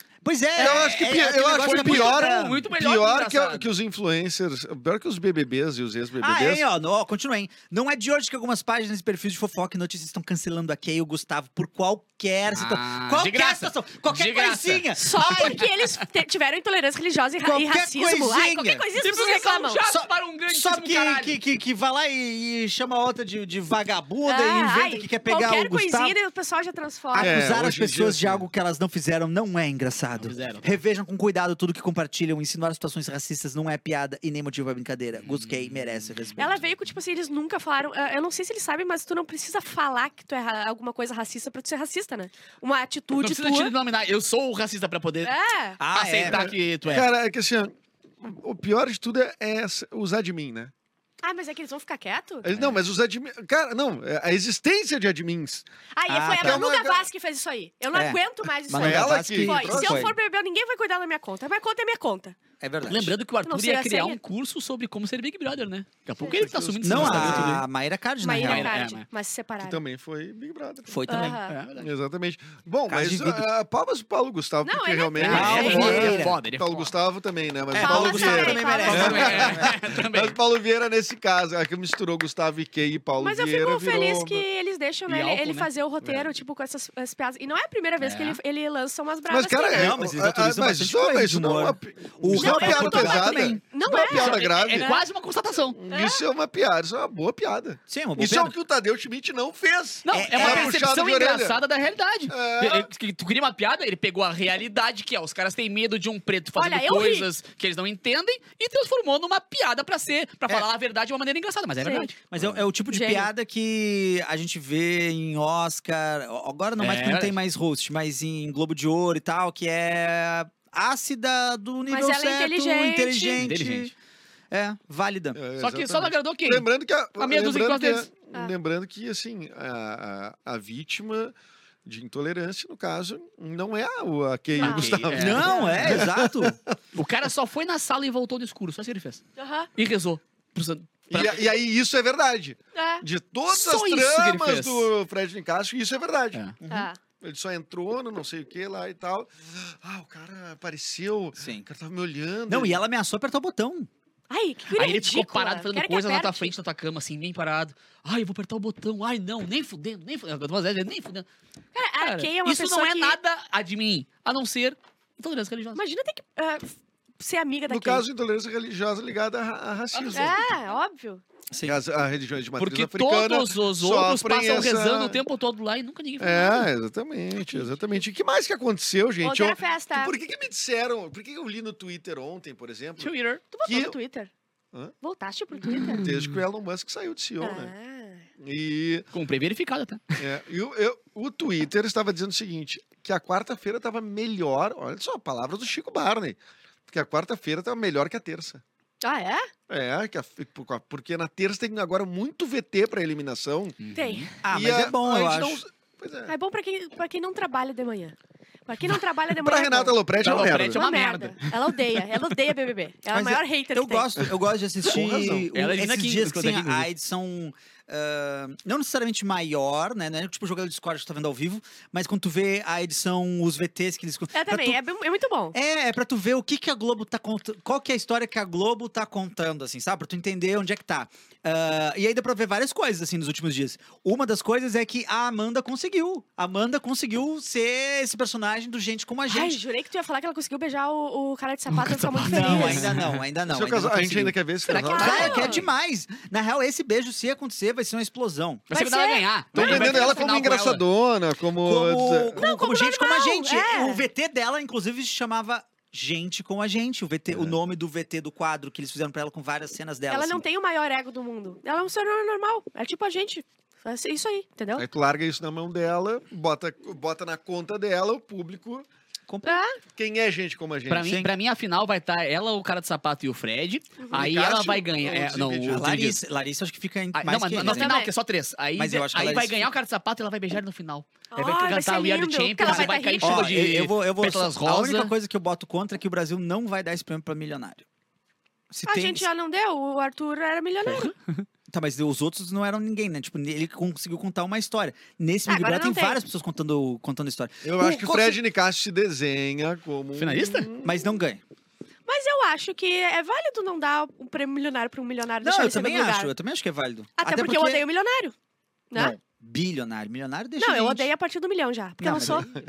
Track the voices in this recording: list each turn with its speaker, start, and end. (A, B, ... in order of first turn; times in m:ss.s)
0:00.2-0:02.6 A
0:00.6-0:06.6 B
0:01.4-0:03.7 C
0:06.2-0:15.6 A
0:12.5-0:15.6 C
0:14.9-0:19.8 D
0:17.4-0:18.9 A
0:19.0-0:21.4 C
0:19.8-0:26.2 A
0:24.2-0:27.4 D
0:27.1-0:36.7 A
0:27.2-0:28.4 B
0:30.2-0:30.7 C
0:35.3-0:35.5 C
0:36.4-0:43.7 D
0:43.2-0:45.3 C
0:45.2-0:45.8 D
0:45.8-0:46.5 A
0:45.9-0:47.1 C
0:46.3-0:50.7 B
0:51.2-0:52.4 D
0:52.4-0:55.6 B
0:52.5-0:52.8 A
0:56.0-1:02.4 D
0:56.1-0:56.7 A
0:56.4-0:57.1 B
0:57.9-1:00.1 A
0:58.7-1:00.1 B
1:02.6-1:03.2 A
1:02.9-1:07.6 C
1:03.4-1:04.2 D
1:06.2-1:07.6 B
1:06.8-1:08.7 A
1:08.2-1:09.8 D
1:08.4-1:09.0 C
1:09.6-1:24.4 B
1:10.9-1:11.4 A
1:11.1-1:11.6 D
1:11.5-1:11.9 C
1:12.9-1:13.5 A
1:14.6-1:16.2 D
1:15.2-1:16.9 C
1:15.2-1:16.4 A
1:17.7-1:19.4 D
1:17.7-1:19.8 A
1:18.8-1:20.4 C
1:23.2-1:29.9 D
1:25.1-1:25.7 C
1:28.0-1:28.4 C
1:29.3-1:35.0 B
1:29.7-1:33.6 A
1:32.3-1:34.9 D
1:32.5-1:32.8 C
1:34.0-1:35.8 C
1:35.7-1:41.6 B
1:35.9-1:36.2 D
1:37.9-1:38.6 A
1:40.0-1:52.2 C
1:40.1-1:40.7 A
1:42.3-1:42.9 B
1:46.6-1:47.3 D
1:51.8-1:52.1 D
1:52.3-2:03.9 A
1:52.9-1:53.3 D
1:56.8-1:57.3 C
2:01.9-2:03.4 D
2:03.4-2:03.9 C
2:04.5-2:05.4 A
2:05.3-2:16.8 B
2:05.6-2:06.6 C
2:07.2-2:08.1 C
2:14.6-2:15.7 D
2:14.6-2:16.0 C
2:15.1-2:16.6 A
2:16.9-2:19.2 C
2:19.4-2:19.7 D
2:19.8-2:21.5 C
2:21.1-2:26.4 B
2:22.7-2:23.0 D
2:23.5-2:24.9 C
2:26.6-2:26.9 A
2:26.7-2:27.0 D
2:27.2-2:32.8 B
2:31.4-2:31.7 A
2:32.5-2:33.9 A
2:34.3-2:36.5 D
2:34.7-2:41.3 C
2:41.7-2:43.2 D
2:42.0-2:45.8 C
2:45.8-2:48.0 D
2:47.7-2:50.4 B
2:49.9-2:50.5 C
2:50.1-2:51.2 D
2:51.5-2:51.8 A
2:51.6-2:55.2 B
2:52.6-2:56.7 C
2:56.2-3:03.1 B
2:57.4-2:57.7 C
2:59.2-3:00.1 D
3:03.0-3:03.4 C
3:03.5-3:04.3 D
3:03.6-3:04.0 B
3:05.0-3:06.0 D
3:05.8-3:06.4 C
3:05.9-3:07.7 B
3:07.4-3:08.2 D
3:08.4-3:09.1 B
3:09.1-3:10.2 C
3:10.2-3:18.6 B
3:19.0-3:19.5 D
3:19.7-3:23.8 B
3:23.8-3:24.3 C
3:23.9-3:24.3 D
3:24.4-3:25.6 A
3:24.5-3:26.3 B
3:26.3-3:28.2 D
3:28.7-3:34.1 D
3:29.3-3:30.8 B
3:30.2-3:31.5 C
3:33.1-3:44.8 A
3:34.8-3:35.5 B
3:35.5-3:36.9 C
3:44.3-3:45.5 D
3:45.5-3:59.6 A
3:59.3-4:02.9 D
4:01.7-4:03.2 C
4:02.2-4:08.6 A
4:03.5-4:05.5 B
4:04.6-4:05.6 C
4:04.7-4:05.6 D
4:08.7-4:10.8 C
4:08.7-4:10.2 D
4:09.5-4:12.4 B
4:11.6-4:20.4 A
4:12.4-4:14.0 D
4:17.3-4:17.6 B
4:20.1-4:24.8 D
4:24.8-4:28.9 B
4:29.3-4:29.6 A
4:29.4-4:29.8 D
4:29.9-4:31.1 B
4:30.9-4:36.2 C
4:30.9-4:31.3 A
4:34.1-4:35.9 B
4:35.7-4:37.9 A
4:37.1-4:45.1 C
4:37.6-4:38.1 D
4:38.8-4:39.7 A
4:41.3-4:43.5 D
4:42.6-4:47.8 A
4:48.7-4:49.3 A
4:48.9-4:51.1 D
4:50.9-4:51.4 C
4:51.7-4:58.4 A
4:55.5-4:56.2 D
4:57.6-5:01.1 B
5:00.1-5:00.7 C
5:00.8-5:01.4 A
5:02.1-5:06.3 D
5:05.4-5:07.8 A
5:07.2-5:08.3 D
5:08.9-5:11.1 A
5:10.6-5:12.5 D
5:12.0-5:12.5 A